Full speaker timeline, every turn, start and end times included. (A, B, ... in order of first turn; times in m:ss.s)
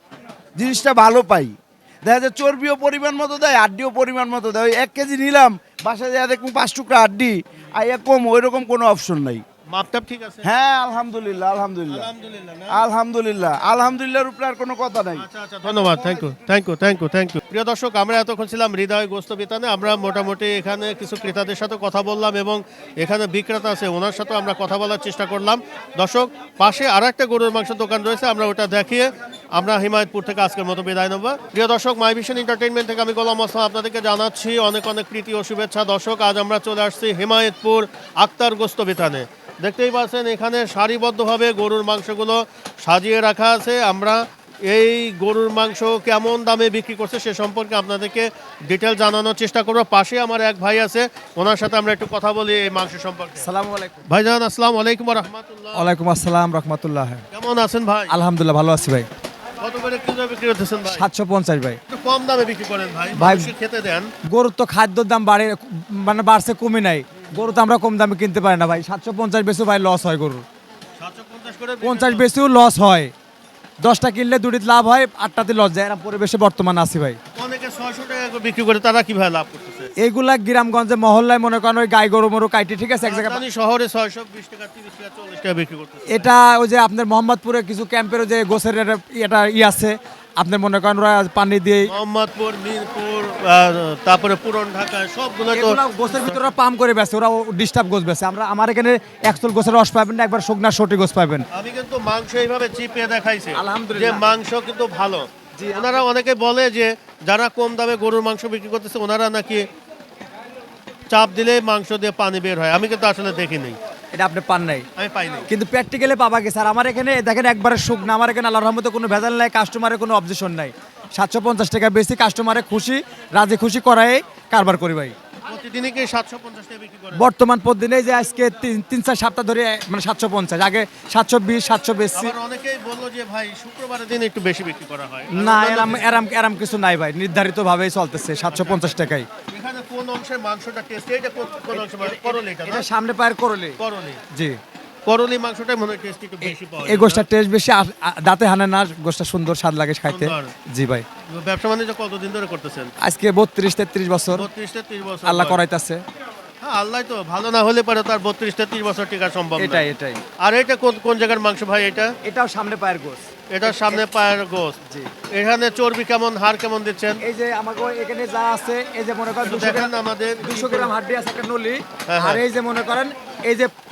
0:00.6-0:09.4 A
0:09.7-0:10.5 B
0:10.4-0:12.1 A
0:11.9-0:12.8 B
0:12.7-0:16.2 A
0:15.2-0:53.5 B
0:53.4-0:54.0 C
0:54.1-0:55.9 B
0:55.7-0:57.2 C
0:57.3-0:58.1 B
0:58.1-0:59.1 C
0:59.6-1:01.1 B
1:00.9-1:01.8 C
1:01.9-1:04.1 B
1:03.2-1:03.5 C
1:04.3-1:10.4 C
1:11.0-1:12.2 B
1:11.8-1:13.1 C
1:13.8-1:17.2 C
1:17.4-1:19.9 B
1:20.0-1:23.4 C
1:23.0-1:26.3 B
1:26.1-1:31.9 C
1:31.9-1:36.4 B
1:35.5-1:41.4 C
1:41.5-1:49.6 B
1:43.6-1:44.3 C
1:45.6-1:45.9 C
1:51.1-1:53.8 B
1:54.1-1:54.9 C
1:55.0-1:55.5 B
1:55.5-2:05.1 C
2:05.5-2:07.2 B
2:07.1-2:12.3 C
2:12.1-2:16.2 B
2:15.3-2:19.3 C
2:18.5-2:19.0 B
2:19.5-2:22.9 B
2:21.7-2:23.8 C
2:23.8-2:24.2 B
2:25.0-2:27.3 B
2:26.8-2:31.0 C
2:30.1-2:30.5 B
2:31.3-2:32.9 B
2:33.0-2:34.5 C
2:34.3-2:35.6 B
2:35.2-2:36.0 C
2:36.6-2:39.8 B
2:39.6-2:40.2 C
2:40.4-2:42.1 B
2:42.2-2:44.0 C
2:43.5-2:44.8 B
2:45.3-2:47.2 B
2:47.2-2:49.9 C
2:49.4-2:50.9 B
2:50.4-2:53.7 C
2:52.1-2:52.4 B